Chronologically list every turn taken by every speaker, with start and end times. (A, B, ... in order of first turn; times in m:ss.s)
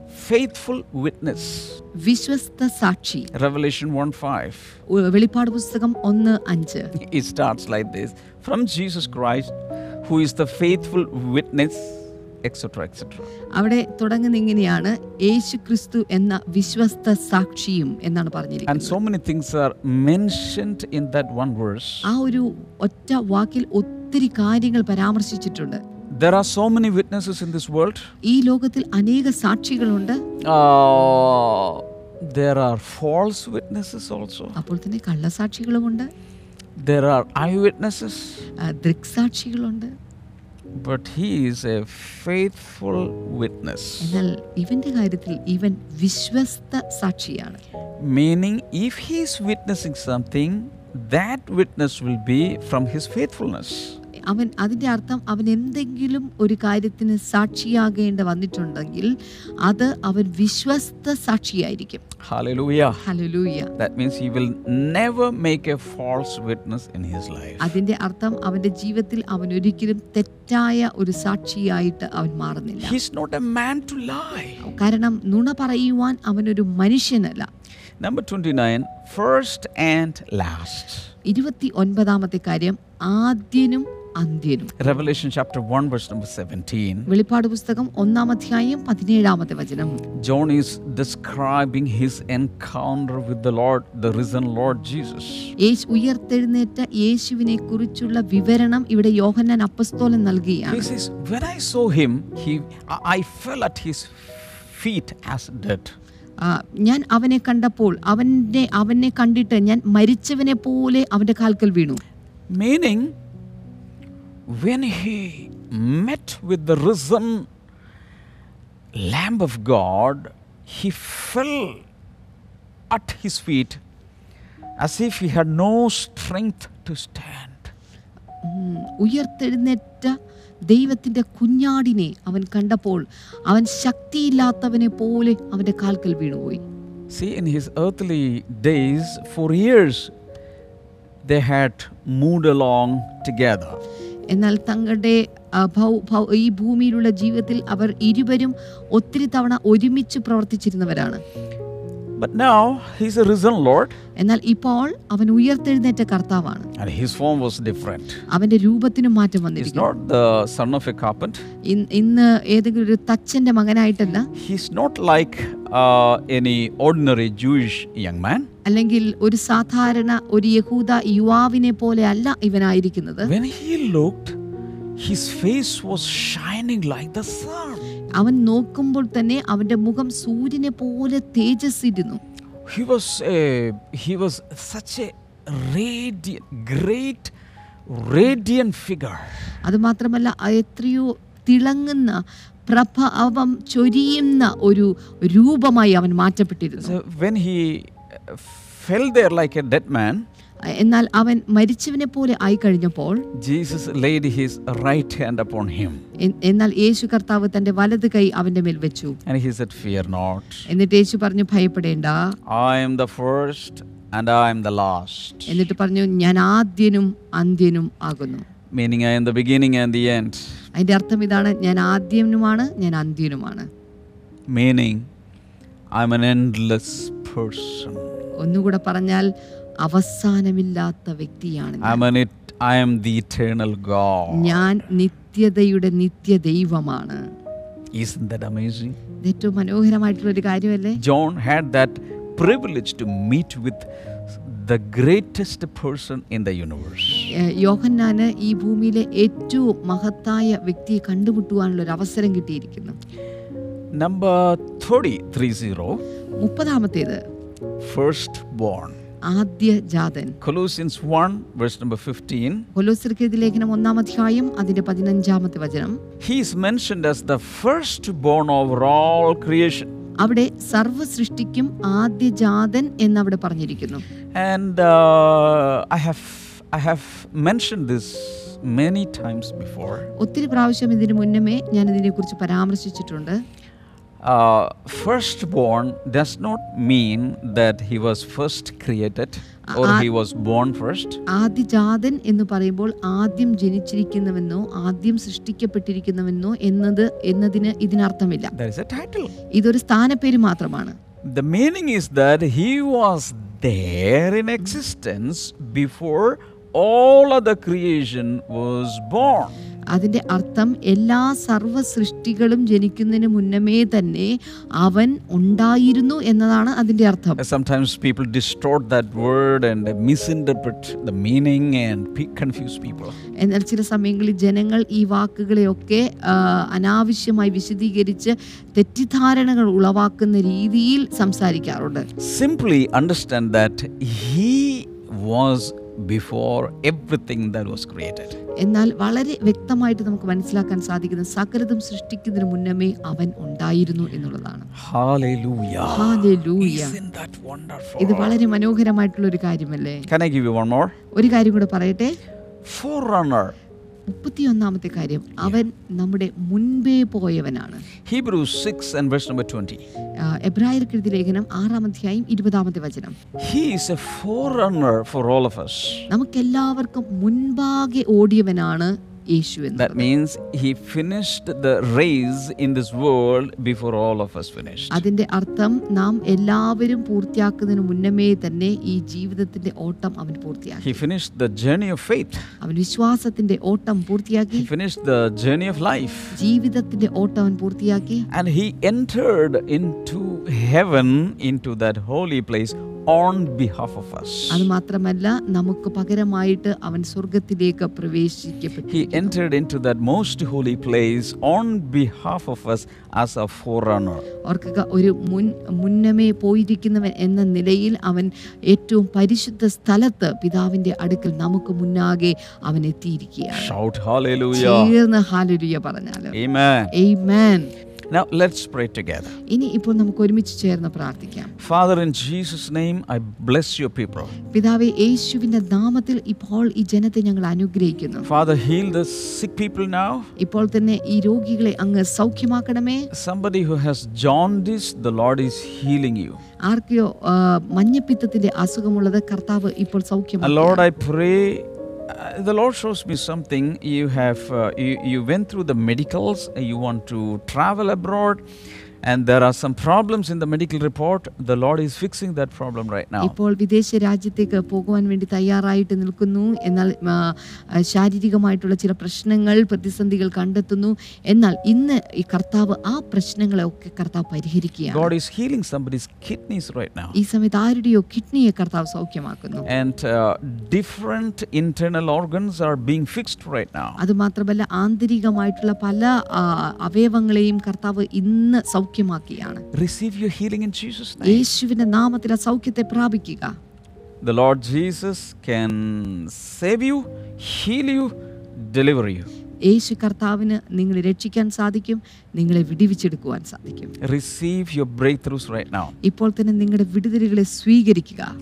0:00.1-0:01.8 A
0:02.0-0:03.3 B
0:03.3-0:04.8 A
0:04.9-0:06.9 B
0:06.9-0:13.3 A
0:13.6-0:19.0 B
0:18.7-0:22.1 A
0:22.0-0:25.8 B
0:26.1-0:28.1 A
0:28.2-0:30.2 B
0:30.4-0:34.6 A
0:34.6-0:36.1 B
0:36.8-0:38.4 A
0:38.6-0:39.9 B
0:40.7-0:44.2 A
0:44.0-0:47.6 B
0:48.0-0:54.0 A
0:54.3-0:59.1 B
0:59.6-1:02.0 B
1:02.2-1:03.0 A
1:03.0-1:03.7 B
1:03.8-1:07.8 A
1:07.6-1:13.0 B
1:12.8-1:14.6 A
1:14.6-1:17.5 B
1:18.0-1:21.1 A
1:21.2-1:24.8 B
1:24.8-1:27.1 A
1:27.1-1:30.0 B
1:30.2-1:35.5 A
1:35.6-1:40.9 B
1:40.7-1:45.9 A
1:46.4-1:52.0 B
1:52.5-1:53.1 A
1:54.5-1:57.5 A
1:58.9-2:01.8 A
2:02.9-2:03.8 A
2:04.8-2:07.7 A
2:08.4-2:10.2 B
2:10.7-2:16.6 B
2:17.1-2:20.1 A
2:21.2-2:23.8 A
2:24.3-2:31.2 B
2:32.2-2:34.0 A
2:34.2-2:36.7 B
2:36.8-2:38.2 A
2:38.3-2:39.9 B
2:39.6-2:41.4 A
2:41.6-2:44.3 B
2:44.3-2:48.5 A
2:48.6-2:53.3 B
2:53.2-2:54.4 A
2:55.0-2:57.8 A
2:58.2-3:02.2 B
3:02.7-3:07.3 A
3:07.9-3:09.4 A
3:09.6-3:17.0 B
3:16.8-3:20.2 A
3:20.7-3:23.2 B
3:23.3-3:26.0 A
3:26.2-3:29.2 B
3:29.2-3:30.6 A
3:30.7-3:32.4 B
3:32.5-3:35.6 A
3:35.5-3:38.4 B
3:38.7-3:40.6 A
3:40.8-3:43.7 B
3:44.5-3:45.1 A
3:45.9-3:48.2 A
3:48.4-3:49.3 B
3:49.8-3:52.0 B
3:51.8-3:54.8 A
3:54.3-3:57.2 B
3:57.9-3:59.0 A
3:59.2-4:01.0 B
4:01.0-4:07.3 A
4:07.4-4:13.0 B
4:13.9-4:16.0 A
4:16.4-4:17.2 B
4:17.8-4:19.0 A
4:19.3-4:20.4 B
4:20.4-4:22.7 A
4:22.7-4:26.0 B
4:26.2-4:29.9 A
4:30.2-4:34.0 B
4:34.3-4:40.1 A
4:40.2-4:43.4 B
4:44.2-4:51.2 A
4:49.7-4:50.1 B
4:51.3-4:58.5 B
4:58.5-4:59.3 A
4:59.5-5:01.0 B
5:01.2-5:09.6 A
5:09.9-5:17.4 B
5:17.4-5:23.2 A
5:23.4-5:32.0 B
5:32.2-5:38.4 A
5:38.6-5:44.7 B
5:44.7-5:48.4 A
5:45.8-5:47.0 B
5:48.0-5:50.0 B
5:50.1-5:50.9 A
5:51.1-5:52.1 B
5:52.6-5:53.5 A
5:54.1-5:57.8 B
5:58.0-5:59.8 A
6:00.2-6:03.1 B
6:03.4-6:06.1 A
6:06.1-6:10.1 B
6:09.8-6:15.0 A
6:14.9-6:21.0 B
6:20.8-6:22.4 A
6:22.6-6:24.7 B
6:24.5-6:26.4 A
6:26.3-6:28.2 B
6:28.3-6:34.6 A
6:34.5-6:39.3 B
6:38.9-6:44.2 A
6:44.4-6:53.7 B
6:53.5-6:54.9 A
6:54.5-6:56.3 B
6:56.3-6:56.9 A
6:56.9-6:57.7 B
6:58.1-6:59.4 A
6:59.5-7:01.5 B
7:01.6-7:04.3 A
7:04.5-7:08.3 B
7:08.2-7:10.3 A
7:10.4-7:13.1 B
7:13.1-7:16.4 A
7:16.7-7:20.8 B
7:20.4-7:28.4 A
7:29.0-7:33.4 A
7:33.2-7:45.1 B
7:44.9-7:47.2 A
7:47.1-7:49.6 B
7:49.6-7:54.0 A
7:54.0-7:59.6 B
7:59.7-8:01.5 A
8:01.2-8:03.6 B
8:04.2-8:09.3 A
8:09.7-8:13.9 B
8:14.0-8:16.0 A
8:16.0-8:18.3 B